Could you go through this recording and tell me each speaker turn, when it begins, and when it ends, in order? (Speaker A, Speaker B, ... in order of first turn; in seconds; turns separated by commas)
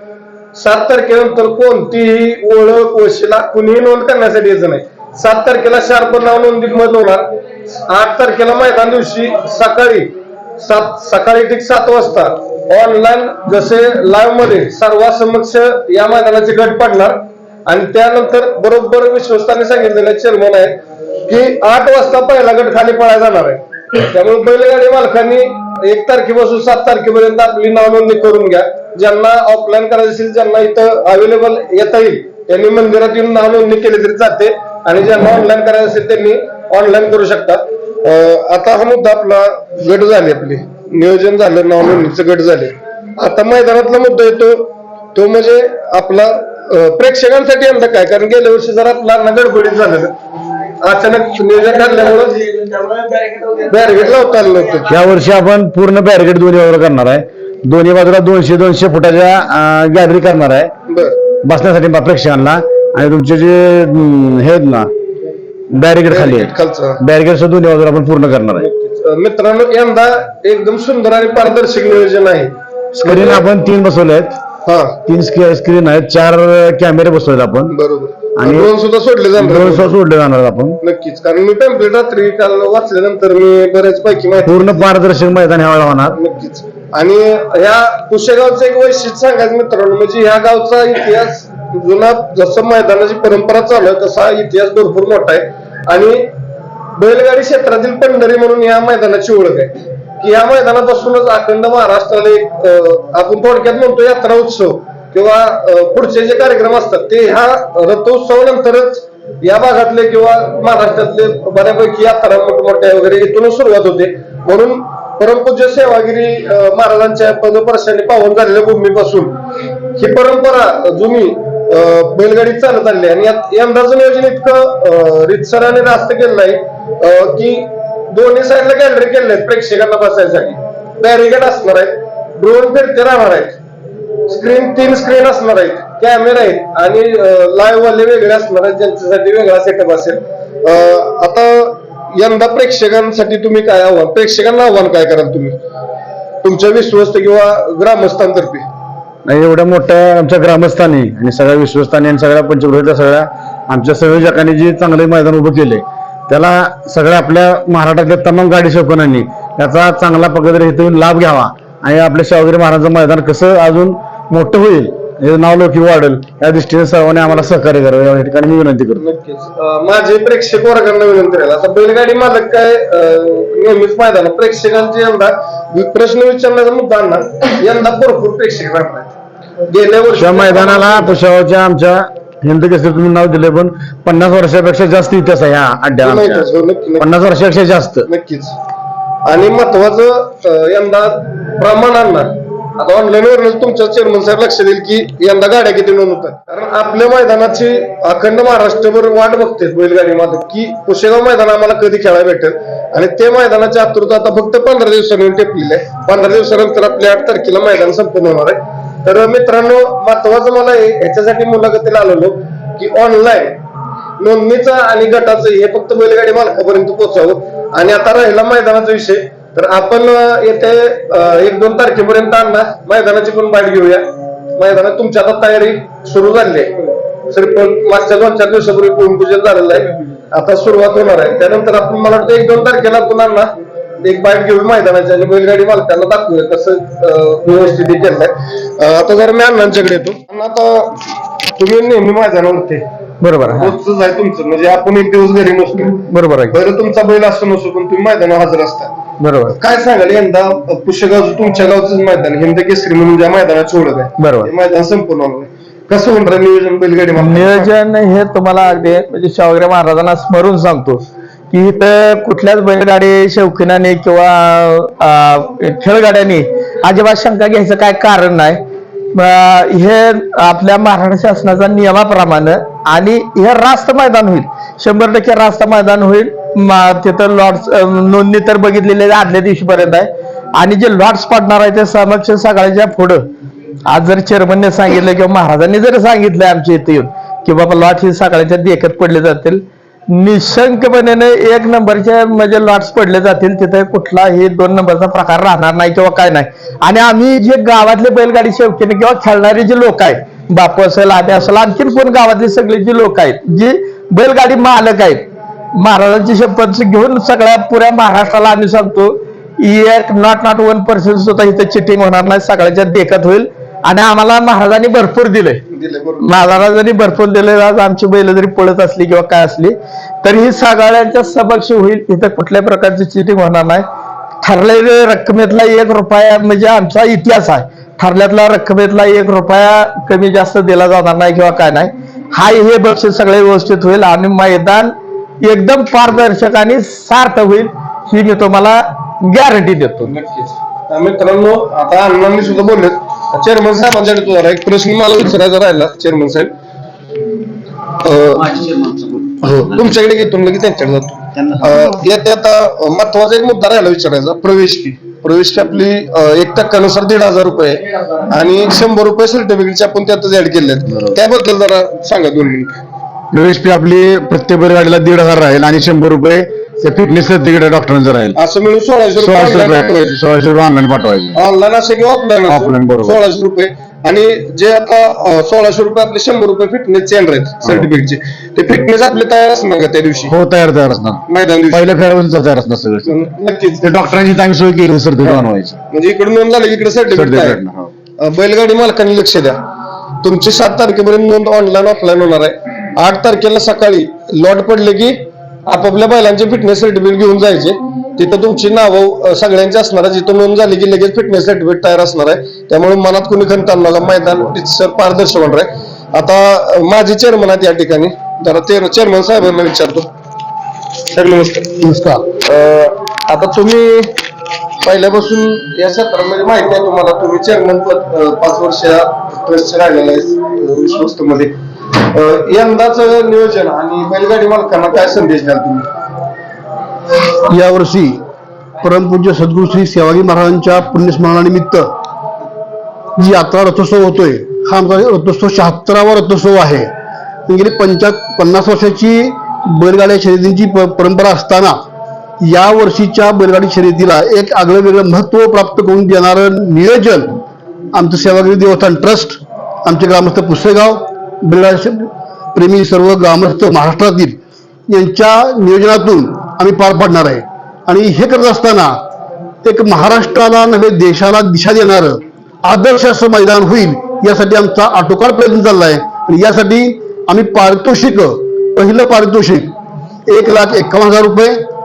Speaker A: 0.6-50.1, Speaker A: 50.8-52.5, Speaker B: 52.9-53.3, Speaker A: 53.6-54.9, Speaker C: 54.9-60.7, Speaker A: 60.9-61.1, Speaker C: 61.4-64.9, Speaker C: 65.7-68.7, Speaker A: 66.1-67.0, Speaker A: 68.6-73.4, Speaker C: 73.0-74.4, Speaker A: 74.7-75.0, Speaker C: 75.1-77.7, Speaker A: 77.7-80.0, Speaker C: 78.4-78.7, Speaker C: 79.4-80.8, Speaker A: 80.8-84.9, Speaker C: 84.5-86.2, Speaker A: 86.1-96.3, Speaker A: 97.0-119.4, Speaker A: 120.0-133.6, Speaker A: 134.3-145.6, Speaker A: 146.4-148.7, Speaker C: 149.3-169.0, Speaker A: 169.0-179.1, Speaker A: 179.7-181.2, Speaker C: 180.2-186.5, Speaker A: 186.0-187.1, Speaker C: 187.0-188.1, Speaker A: 188.1-188.6, Speaker A: 189.2-213.6, Speaker A: 214.2-224.1, Speaker A: 224.6-226.8, Speaker A: 227.3-233.5, Speaker A: 234.0-242.8, Speaker B: 243.2-243.8, Speaker A: 243.5-248.9, Speaker B: 246.1-246.5, Speaker B: 249.2-249.6, Speaker A: 249.6-257.7, Speaker B: 254.2-254.5, Speaker B: 257.2-268.6, Speaker B: 269.1-283.2, Speaker B: 283.9-289.6, Speaker B: 290.1-315.6, Speaker A: 315.7-316.3, Speaker B: 316.2-323.8, Speaker B: 324.4-340.1, Speaker A: 340.1-346.5, Speaker A: 348.0-348.9, Speaker C: 348.9-349.2, Speaker D: 349.4-349.7, Speaker A: 349.6-362.8, Speaker C: 363.3-368.4, Speaker A: 368.4-370.1, Speaker C: 369.2-371.4, Speaker A: 371.3-380.3, Speaker C: 372.5-373.2, Speaker C: 380.3-383.1, Speaker A: 381.3-381.9, Speaker A: 383.1-383.9, Speaker C: 383.8-385.8, Speaker A: 385.2-387.6, Speaker C: 387.1-387.9, Speaker A: 388.2-389.6, Speaker A: 390.2-410.1, Speaker A: 411.1-411.7, Speaker D: 411.8-412.2, Speaker A: 412.4-414.1, Speaker A: 414.8-425.9, Speaker D: 427.4-428.2, Speaker D: 428.8-431.9, Speaker D: 433.2-436.9, Speaker D: 437.5-441.8, Speaker D: 442.4-447.3, Speaker D: 447.9-454.4, Speaker D: 454.9-458.9, Speaker D: 459.6-469.7, Speaker D: 470.3-471.6